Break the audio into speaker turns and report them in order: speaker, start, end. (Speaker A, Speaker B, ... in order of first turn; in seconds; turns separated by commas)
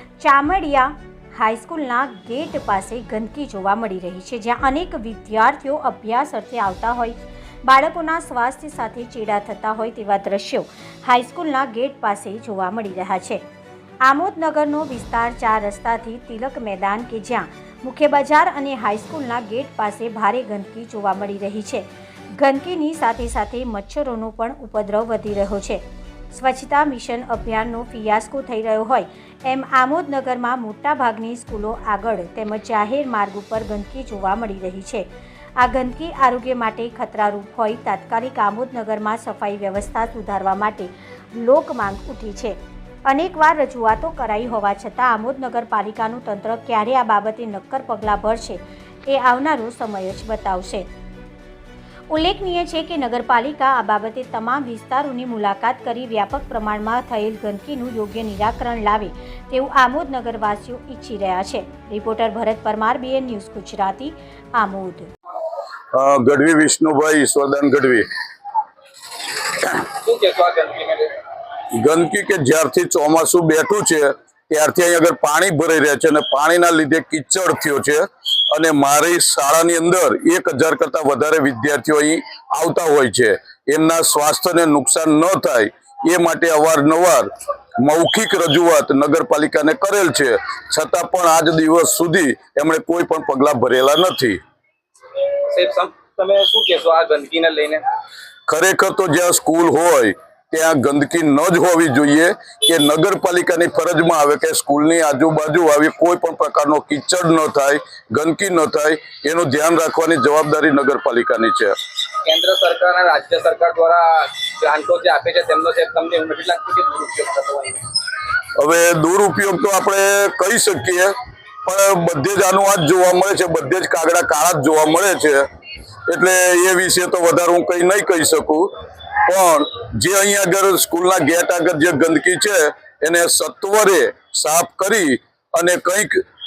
Speaker A: 0.2-13.4, Speaker A: 14.0-35.0, Speaker A: 35.6-50.9, Speaker A: 52.1-65.1, Speaker B: 65.9-68.1, Speaker C: 69.9-71.2, Speaker B: 71.7-94.4, Speaker C: 95.5-97.8, Speaker B: 98.5-111.8, Speaker C: 112.2-117.9, Speaker B: 118.6-121.1, Speaker B: 121.6-125.5, Speaker B: 126.1-128.7, Speaker B: 129.2-136.2